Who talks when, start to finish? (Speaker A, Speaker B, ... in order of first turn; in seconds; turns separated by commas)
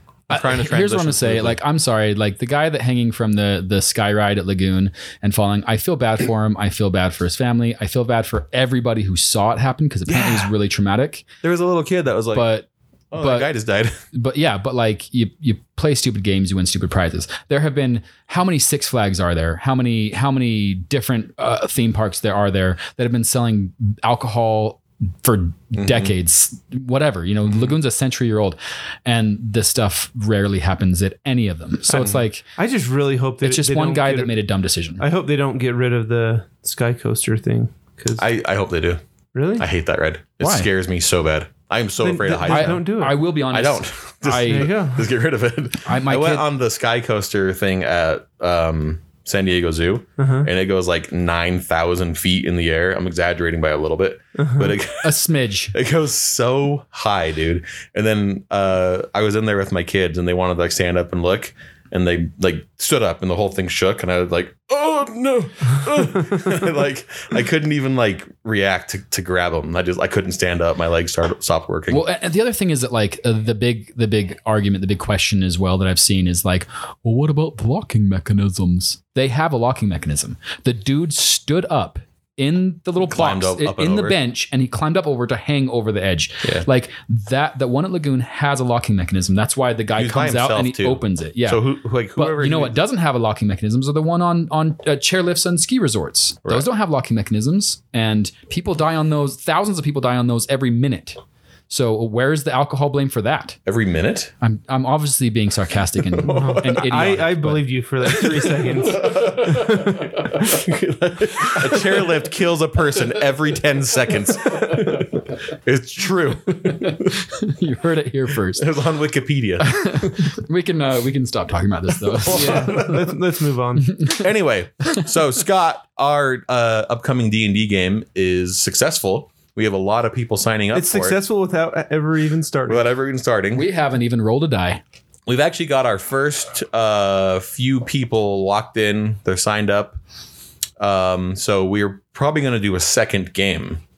Speaker A: 0.3-1.6, Speaker B: 0.3-11.3, Speaker A: 10.1-10.5, Speaker A: 11.4-12.5, Speaker B: 12.3-13.5, Speaker A: 13.1-14.0, Speaker B: 14.1-32.5, Speaker A: 25.8-26.1, Speaker C: 32.6-34.4, Speaker B: 33.4-35.0, Speaker C: 35.0-38.2, Speaker A: 38.2-39.0, Speaker C: 39.4-39.7, Speaker A: 39.6-55.2, Speaker B: 40.4-40.7, Speaker C: 42.0-43.2, Speaker B: 42.5-44.7, Speaker C: 44.4-45.1, Speaker B: 45.9-46.5, Speaker C: 50.2-50.5, Speaker C: 54.4-54.8, Speaker B: 55.0-55.7, Speaker A: 55.7-72.1, Speaker B: 71.9-103.6, Speaker A: 83.0-84.2, Speaker A: 90.0-92.8, Speaker A: 103.7-104.3, Speaker B: 104.4-107.7, Speaker A: 106.2-107.0, Speaker C: 106.2-110.4, Speaker A: 108.5-117.1, Speaker B: 116.6-118.7, Speaker A: 118.5-119.8, Speaker B: 119.6-122.9, Speaker A: 122.1-123.1, Speaker C: 122.3-124.0, Speaker B: 124.0-124.2, Speaker A: 124.1-131.2, Speaker C: 130.7-132.9, Speaker A: 132.7-133.7, Speaker B: 133.5-134.8, Speaker A: 135.3-140.0, Speaker A: 140.8-143.8